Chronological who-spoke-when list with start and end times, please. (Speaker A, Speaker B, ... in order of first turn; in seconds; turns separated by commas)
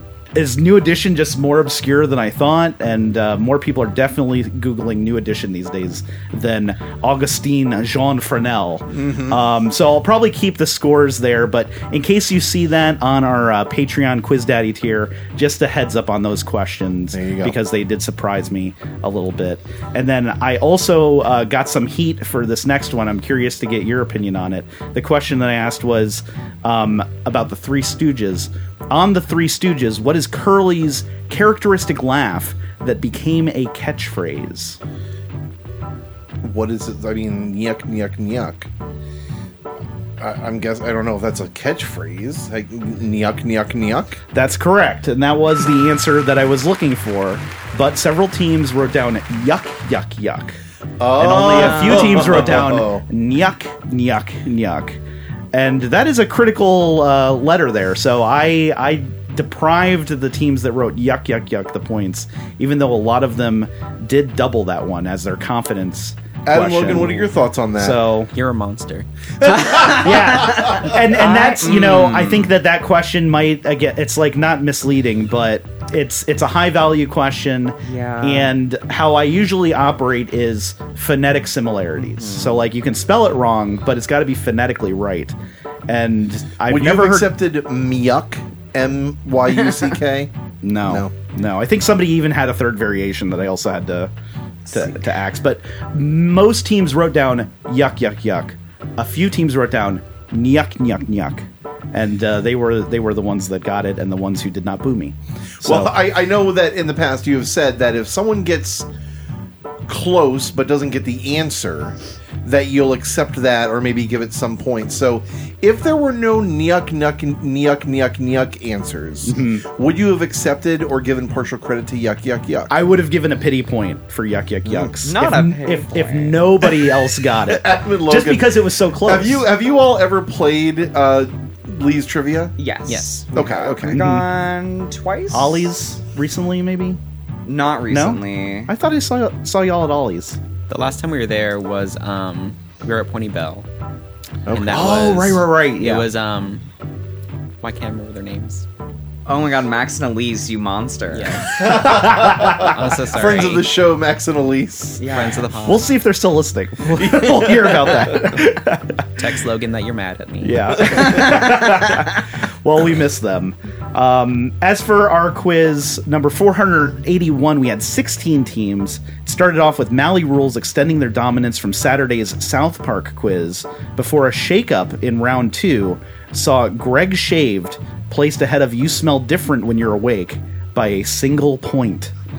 Speaker A: 0.3-34.8, Speaker B: 8.9-9.4, Speaker B: 17.1-17.6, Speaker B: 36.4-38.7, Speaker B: 40.2-44.2, Speaker A: 44.3-50.6, Speaker B: 51.0-53.0, Speaker A: 51.1-55.0, Speaker C: 51.5-52.4, Speaker A: 55.5-68.3, Speaker B: 66.5-68.0, Speaker D: 68.3-69.1, Speaker B: 69.4-70.9, Speaker A: 69.8-85.3, Speaker C: 69.8-72.5, Speaker C: 77.8-78.5, Speaker C: 82.0-82.7, Speaker A: 85.9-87.3, Speaker B: 86.6-91.1, Speaker A: 90.6-94.1, Speaker A: 94.7-105.9, Speaker B: 105.6-108.9, Speaker B: 109.9-122.7, Speaker A: 119.2-119.7, Speaker A: 122.7-129.5, Speaker B: 124.6-124.9, Speaker C: 125.0-126.4, Speaker B: 126.8-132.5, Speaker C: 132.6-135.7, Speaker D: 132.8-133.2, Speaker B: 133.3-134.0, Speaker A: 133.9-134.3, Speaker A: 135.3-137.0, Speaker C: 137.4-138.7, Speaker A: 137.9-140.4, Speaker D: 140.7-143.7, Speaker B: 144.4-145.0, Speaker D: 144.5-146.7, Speaker A: 144.7-146.1, Speaker D: 147.6-148.6, Speaker C: 149.2-151.5, Speaker D: 151.1-153.7, Speaker B: 151.5-155.0, Speaker A: 151.6-152.8, Speaker C: 155.0-155.6, Speaker D: 155.1-155.9, Speaker A: 155.6-159.1, Speaker B: 156.9-158.4, Speaker D: 159.2-161.2, Speaker A: 160.4-182.1